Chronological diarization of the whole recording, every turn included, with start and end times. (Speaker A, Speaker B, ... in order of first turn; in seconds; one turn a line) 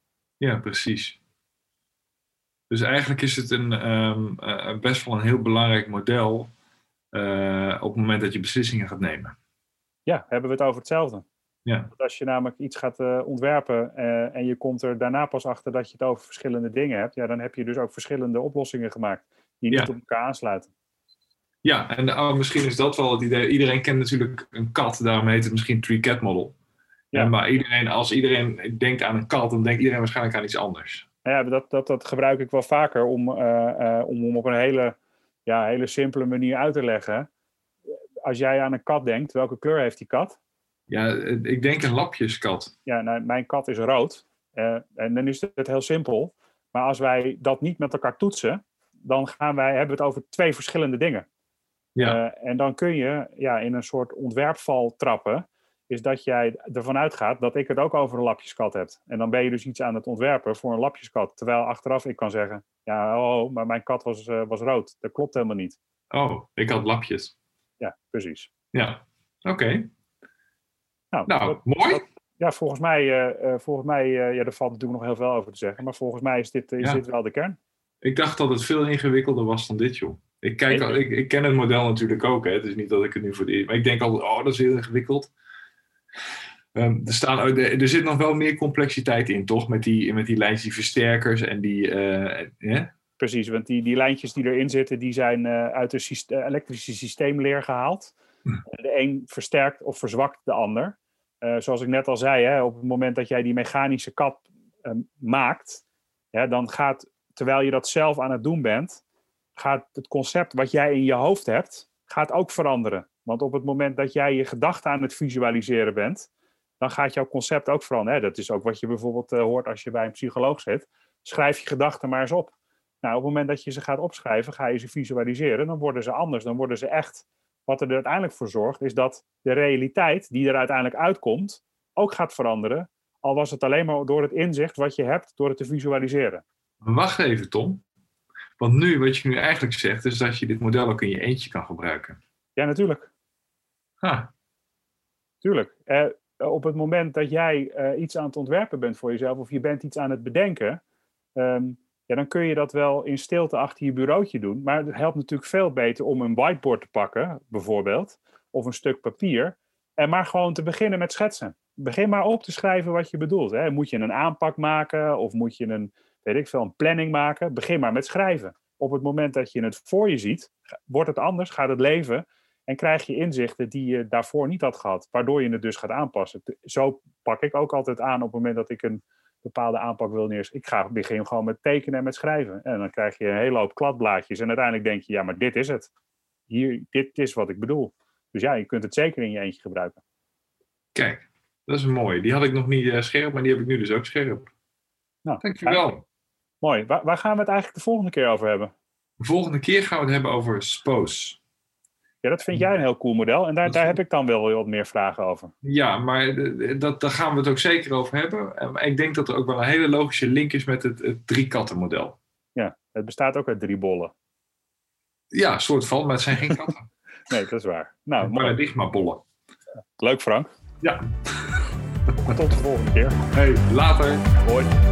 Speaker A: 0.4-1.2
Speaker A: 2.7-6.5
Speaker A: 7.1-9.3
Speaker B: 10.1-11.2
Speaker A: 11.7-11.9
Speaker B: 11.9-20.7
Speaker A: 21.6-26.6
Speaker A: 27.1-31.1
Speaker B: 31.2-37.3
Speaker B: 38.2-40.4
Speaker A: 40.9-42.7
Speaker B: 42.9-51.3
Speaker B: 52.0-65.8
Speaker A: 66.1-67.3
Speaker B: 67.8-68.5
Speaker A: 68.7-69.9
Speaker B: 71.1-77.6
Speaker A: 71.3-72.0
Speaker A: 78.0-85.3
Speaker B: 80.7-81.0
Speaker A: 86.7-92.9
Speaker B: 93.2-98.1
Speaker B: 98.7-109.0
Speaker B: 109.6-116.3
Speaker B: 116.8-136.4
Speaker A: 136.8-137.8
Speaker A: 138.6-142.2
Speaker B: 142.6-143.1
Speaker A: 144.0-144.3
Speaker B: 145.4-150.8
Speaker B: 151.3-185.9
Speaker B: 186.5-190.0
Speaker A: 190.9-194.5
Speaker B: 195.2-195.8
Speaker A: 195.4-196.0
Speaker B: 196.6-198.7
Speaker A: 199.2-201.4
Speaker B: 202.2-205.5
Speaker A: 205.6-212.2
Speaker B: 212.6-214.1
Speaker A: 215.3-216.9
Speaker B: 217.3-218.6
Speaker A: 218.2-219.2
Speaker B: 220.0-220.5
Speaker A: 220.8-221.6
Speaker B: 222.3-223.2
Speaker A: 223.3-224.3
Speaker B: 224.4-224.7